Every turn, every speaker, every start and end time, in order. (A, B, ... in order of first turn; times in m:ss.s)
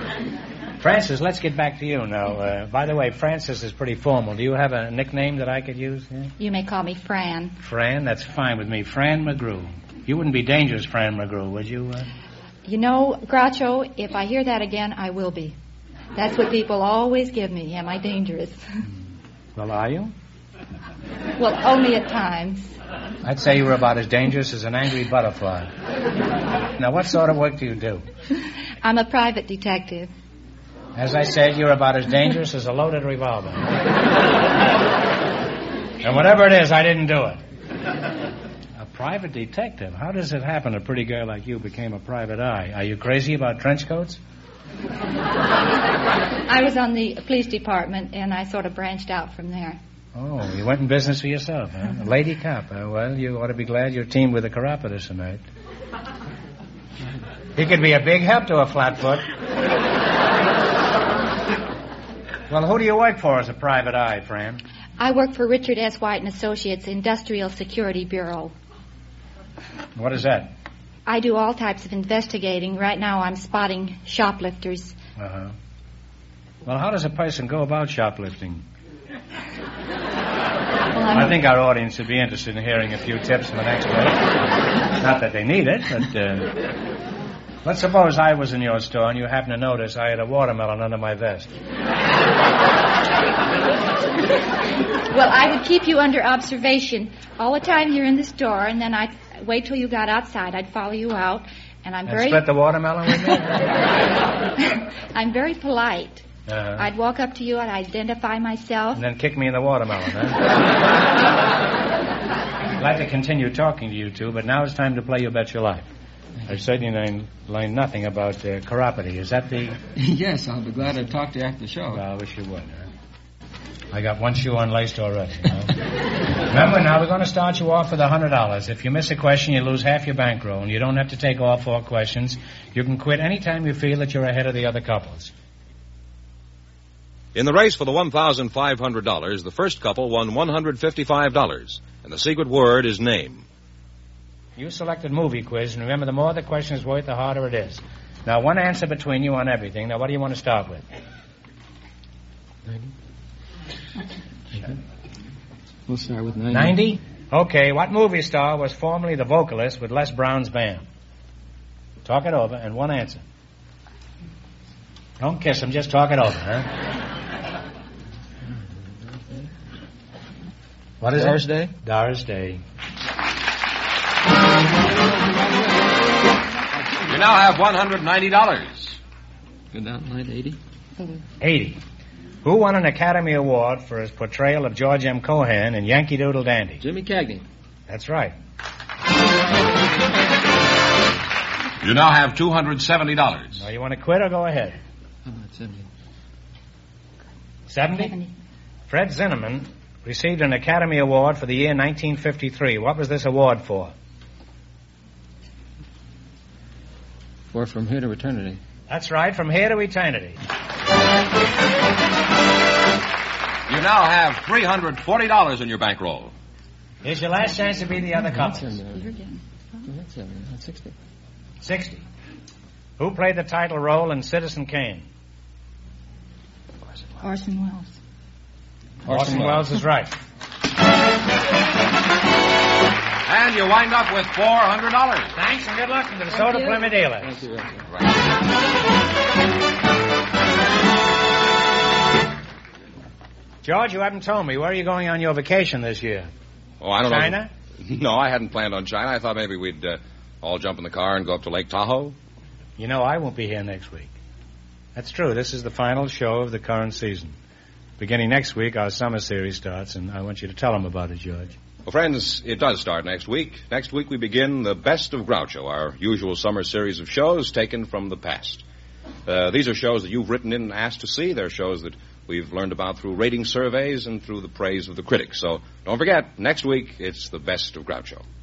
0:00.8-0:06.3 A
0:06.4-0:07.6 B
0:07.6-0:12.1 A
0:12.6-0:15.6 B
0:16.2-0:18.6 B
0:19.6-0:20.1 A
0:21.4-0:22.7 B
0:23.2-0:25.7 A
0:26.8-0:28.1 A
0:28.8-0:30.1 B
0:31.0-0:33.8 A
0:36.0-0:37.4 A
0:38.8-0:44.2 A
0:46.5-0:49.8 B
0:50.2-0:55.4 A
0:57.6-0:59.3 A
1:02.5-1:04.6 A
1:05.0-1:08.5 B
1:10.0-1:10.5 A
1:11.1-1:15.0 B
1:15.2-1:15.5 A
1:16.7-1:18.6 A
1:20.9-1:21.4 B
1:21.1-1:24.4 A
1:25.0-1:26.6 A
1:27.6-1:31.5 A
1:35.1-1:43.4 B
1:42.1-1:43.7 A
1:44.6-1:46.2 B
1:46.5-1:46.9 A
1:46.8-1:49.0 B
1:49.0-1:50.4 A
1:52.8-1:55.9 A
1:56.5-1:59.8 A
2:00.0-2:02.0 C
2:01.9-2:02.9 A
2:03.9-2:15.3 A
2:17.4-2:23.4 D
2:24.6-2:30.8 A
2:35.9-2:36.8 C
2:36.5-2:40.8 A
2:42.0-2:43.2 A
2:45.2-2:46.7 A
2:51.0-2:52.6 A
2:51.1-2:51.7 C
2:57.1-2:59.0 D
2:59.7-3:00.6 C
3:01.4-3:01.8 A
3:02.4-3:06.8 A
3:06.8-3:07.4 C
3:07.9-3:08.3 A
3:11.8-3:13.6 D
3:13.6-3:14.8 A
3:15.2-3:15.9 C
3:17.7-3:18.1 A
3:18.0-3:18.3 B
3:18.9-3:23.9 A
3:27.5-3:28.6 C
3:28.9-3:30.4 A
3:33.7-3:36.3 D
3:37.0-3:38.7 A
3:38.2-3:39.1 C
3:39.9-3:40.9 C
3:41.6-3:42.0 A
3:43.0-3:45.1 A
3:47.2-3:47.9 B
3:49.1-3:49.6 C
3:49.1-3:50.2 A
3:53.3-3:55.3 D
3:55.4-3:57.3 A
3:57.2-3:57.8 C
4:03.6-4:06.3 A
4:06.8-4:12.2 D
4:07.0-4:07.5 A
4:12.8-4:14.1 A
4:15.0-4:17.4 A
4:18.0-4:21.6 A
4:21.8-4:28.6 D
4:29.3-4:38.2 D